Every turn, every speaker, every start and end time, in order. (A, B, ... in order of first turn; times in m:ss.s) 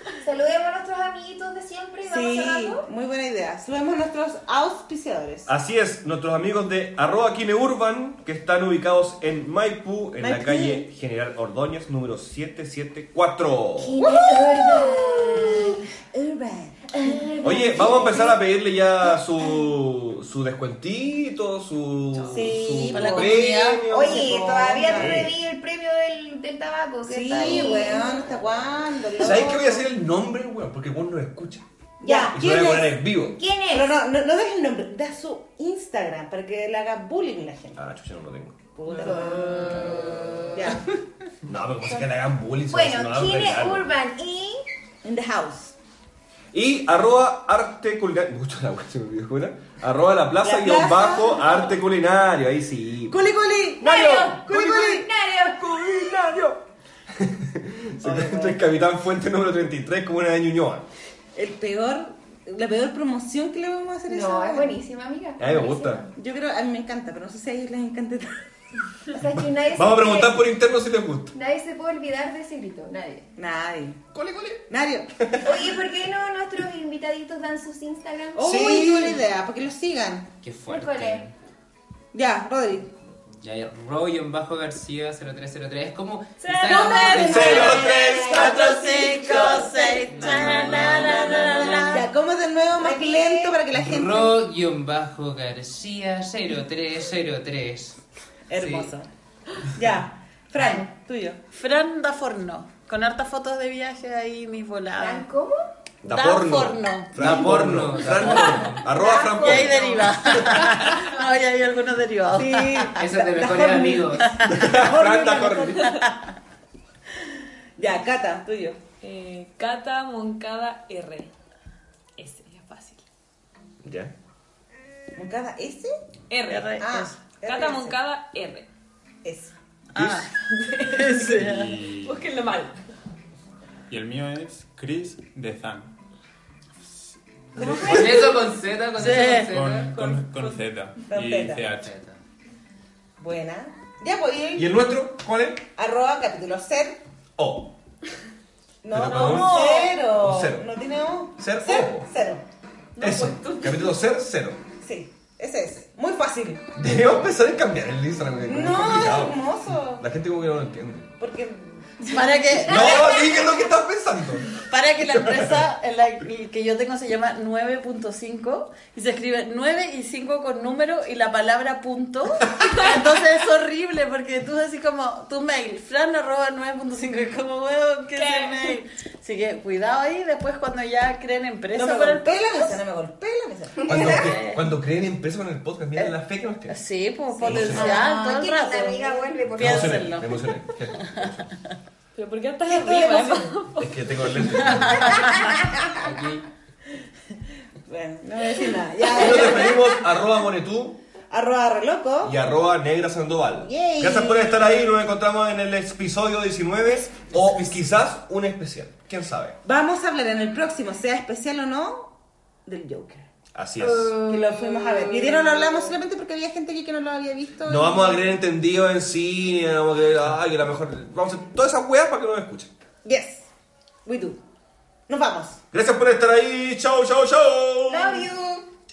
0:00.2-0:02.8 A
0:02.0-0:05.5 B
0:05.5-0:14.0 C
0:10.2-0:10.9 B
0:13.8-0:15.8 A
0:14.0-0:17.3 B
0:16.9-0:18.4 A
0:17.4-0:25.3 C
0:22.2-0:25.3 B
0:22.9-0:23.8 D
0:23.9-0:28.4 A
0:27.0-0:29.9 B
0:27.4-0:27.7 C
0:29.2-0:33.4 C
0:32.0-0:33.1 B
0:32.0-0:34.0 A
0:33.7-0:37.8 B
0:37.8-0:40.6 C
0:38.8-0:40.9 B
0:39.0-0:40.7 A
0:41.5-0:43.9 C
0:42.7-0:44.6 A
0:45.0-0:45.8 B
0:46.5-0:53.2 C
0:50.4-0:51.8 B
0:53.1-0:53.9 B
0:53.8-0:56.4 A
0:53.9-0:56.6 C
0:57.2-1:00.9 C
0:58.0-0:58.6 B
1:01.4-1:04.8 B
1:04.1-1:06.1 A
1:05.4-1:06.0 C
1:06.2-1:08.4 B
1:09.1-1:10.5 A
1:09.4-1:11.4 C
1:11.3-1:13.3 A
1:13.4-1:14.0 B
1:14.1-1:14.6 C
1:14.7-1:15.5 B
1:15.2-1:15.6 C
1:15.4-1:19.2 A
1:18.3-1:20.3 B
1:18.4-1:19.2 C
1:20.4-1:21.3 E
1:20.7-1:21.3 A
1:22.1-1:22.9 B
1:23.4-1:27.7 E
1:26.4-1:27.8 F
1:26.7-1:28.0 B
1:27.3-1:29.5 C
1:27.4-1:32.0 A
1:28.2-1:32.1 D
1:30.0-1:31.8 E
1:31.9-1:34.4 B
1:32.8-1:33.6 A
1:33.7-1:38.0 E
1:38.5-1:39.1 B
1:38.5-1:38.9 E
1:39.7-1:41.4 B
1:41.5-1:45.3 D
1:45.0-1:45.6 A
1:46.0-1:50.7 C
1:46.1-1:47.2 D
1:47.2-1:48.9 E
1:48.2-1:50.6 A
1:49.4-1:53.0 D
1:52.3-1:56.0 B
1:53.0-1:54.4 E
1:54.1-1:54.7 D
1:54.4-1:56.0 C
1:57.8-1:58.8 B
1:59.0-2:01.3 F
2:02.2-2:03.0 F
2:03.8-2:04.1 C
2:05.2-2:06.0 B
2:06.3-2:06.9 F
2:06.5-2:07.2 D
2:06.8-2:08.0 B
2:07.4-2:08.7 F
2:09.2-2:09.5 B
2:09.9-2:11.8 D
2:10.6-2:11.2 F
2:11.1-2:12.3 G
2:12.0-2:12.8 F
2:13.9-2:15.9 G
2:17.6-2:18.1 C
2:17.6-2:18.4 A
2:17.6-2:20.0 E
2:17.8-2:18.2 F
2:19.0-2:19.5 D
2:19.4-2:22.0 G
2:19.8-2:20.6 F
2:21.1-2:21.6 B
2:21.7-2:22.2 E
2:23.2-2:24.9 B
2:24.6-2:25.7 C
2:25.8-2:27.0 B
2:27.4-2:27.7 C
2:28.8-2:32.4 B
2:28.9-2:30.7 C
2:29.1-2:29.9 D
2:31.4-2:32.1 C
2:33.0-2:34.0 F
2:33.0-2:34.6 C
2:34.8-2:36.7 B
2:36.8-2:41.1 C
2:38.4-2:40.0 B
2:41.2-2:41.9 B
2:42.0-2:43.7 A
2:42.0-2:43.1 D
2:42.6-2:44.5 C
2:44.7-3:02.8 D
2:45.0-2:45.6 C
2:58.2-2:58.7 F
3:01.7-3:04.3 B
3:03.8-3:06.8 C
3:04.0-3:04.6 D
3:06.7-3:11.2 D
3:07.4-3:10.2 A
3:07.4-3:07.9 B
3:07.4-3:08.0 C
3:09.5-3:11.6 C
3:12.2-3:14.9 F
3:12.7-3:13.6 A
3:13.8-3:15.3 C
3:15.0-3:15.4 D
3:15.9-3:16.5 E
3:17.3-3:20.0 B
3:19.2-3:21.0 C
3:21.3-3:22.4 B
3:22.2-3:29.6 C
3:23.6-3:24.8 B
3:29.6-3:33.3 B
3:33.5-3:34.3 C
3:34.2-3:38.4 B
3:37.7-3:42.7 C
3:43.0-3:43.5 B
3:44.0-3:44.4 B
3:45.1-3:45.6 B
3:45.7-3:48.3 C
3:47.9-3:48.7 A